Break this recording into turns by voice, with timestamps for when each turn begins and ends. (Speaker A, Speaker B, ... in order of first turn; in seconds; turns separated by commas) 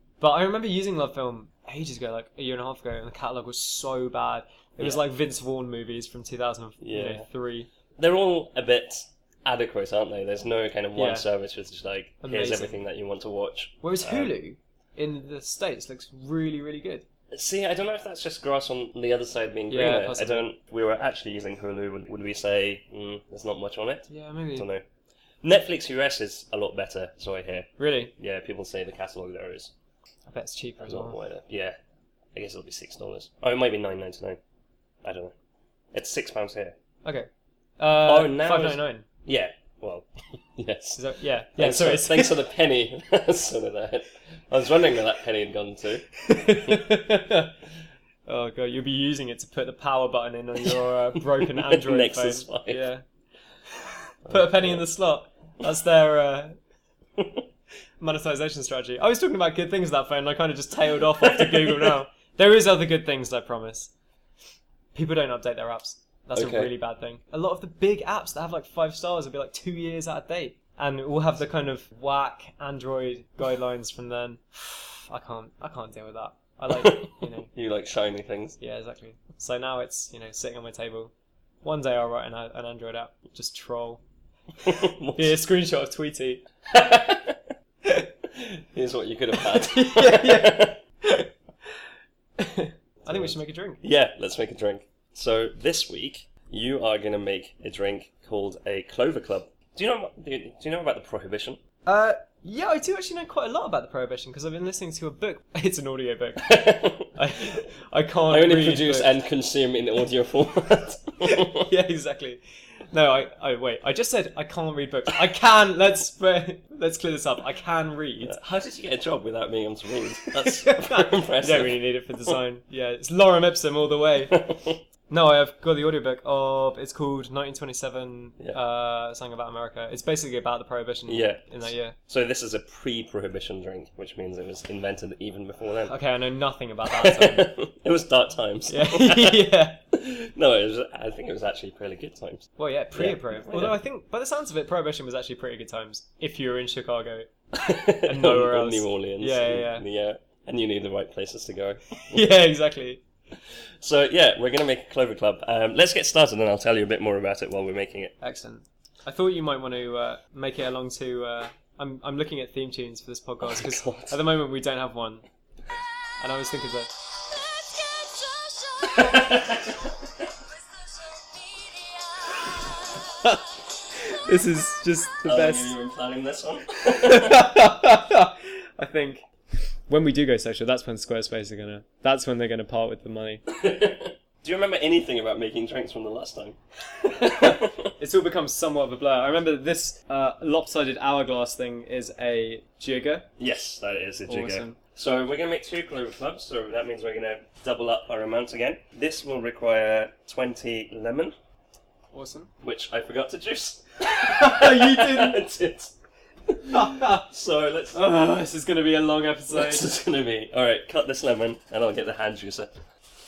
Speaker A: 0.2-7.7, Speaker B: 6.8-7.3, Speaker B: 8.0-14.3, Speaker A: 10.9-11.3, Speaker A: 12.2-12.8, Speaker A: 13.8-17.1, Speaker B: 17.3-24.8, Speaker A: 19.7-20.5, Speaker A: 24.1-24.7, Speaker B: 25.4-29.7, Speaker A: 27.8-28.1, Speaker A: 30.3-31.2, Speaker B: 30.8-31.8, Speaker B: 32.4-34.4, Speaker B: 35.0-35.3, Speaker B: 35.9-36.8, Speaker A: 37.0-39.1, Speaker B: 38.0-46.1, Speaker A: 41.0-42.4, Speaker A: 46.2-47.5, Speaker A: 48.3-53.0, Speaker B: 50.7-52.9, Speaker A: 53.7-56.6, Speaker B: 54.3-54.9, Speaker B: 57.2-57.4, Speaker A: 58.0-63.9, Speaker B: 61.2-62.0, Speaker A: 65.0-77.5, Speaker B: 66.3-66.7, Speaker B: 76.7-78.6, Speaker A: 78.6-81.1, Speaker A: 81.6-84.0, Speaker B: 84.6-85.4, Speaker A: 85.2-86.4, Speaker B: 86.7-87.4, Speaker A: 87.8-88.1, Speaker B: 88.7-90.8, Speaker A: 89.3-91.3, Speaker A: 92.4-93.8, Speaker B: 93.0-101.6, Speaker A: 101.8-109.1, Speaker B: 106.4-107.2, Speaker B: 108.3-111.7, Speaker A: 111.2-118.4, Speaker B: 118.2-121.8, Speaker A: 120.4-124.4, Speaker B: 124.3-124.8, Speaker A: 125.1-132.0, Speaker B: 131.1-131.5, Speaker B: 132.1-135.9, Speaker A: 135.9-137.6, Speaker B: 136.9-143.8, Speaker A: 138.7-139.8, Speaker A: 142.6-147.3, Speaker B: 147.5-151.9, Speaker A: 148.0-149.9, Speaker A: 152.1-153.0, Speaker B: 153.8-158.1, Speaker A: 158.2-165.2, Speaker B: 163.4-164.2, Speaker A: 166.2-166.9, Speaker C: 167.4-169.4, Speaker B: 168.9-169.9, Speaker C: 170.6-172.4, Speaker A: 173.2-175.7, Speaker B: 175.2-177.5, Speaker A: 176.9-179.2, Speaker A: 179.9-183.4, Speaker B: 183.5-187.9, Speaker A: 187.2-193.3, Speaker B: 193.4-201.3, Speaker A: 194.3-194.8, Speaker A: 202.1-202.5, Speaker B: 202.6-205.9, Speaker A: 204.2-205.4, Speaker B: 206.5-208.0, Speaker A: 206.7-207.3, Speaker A: 207.9-209.9, Speaker B: 209.5-212.8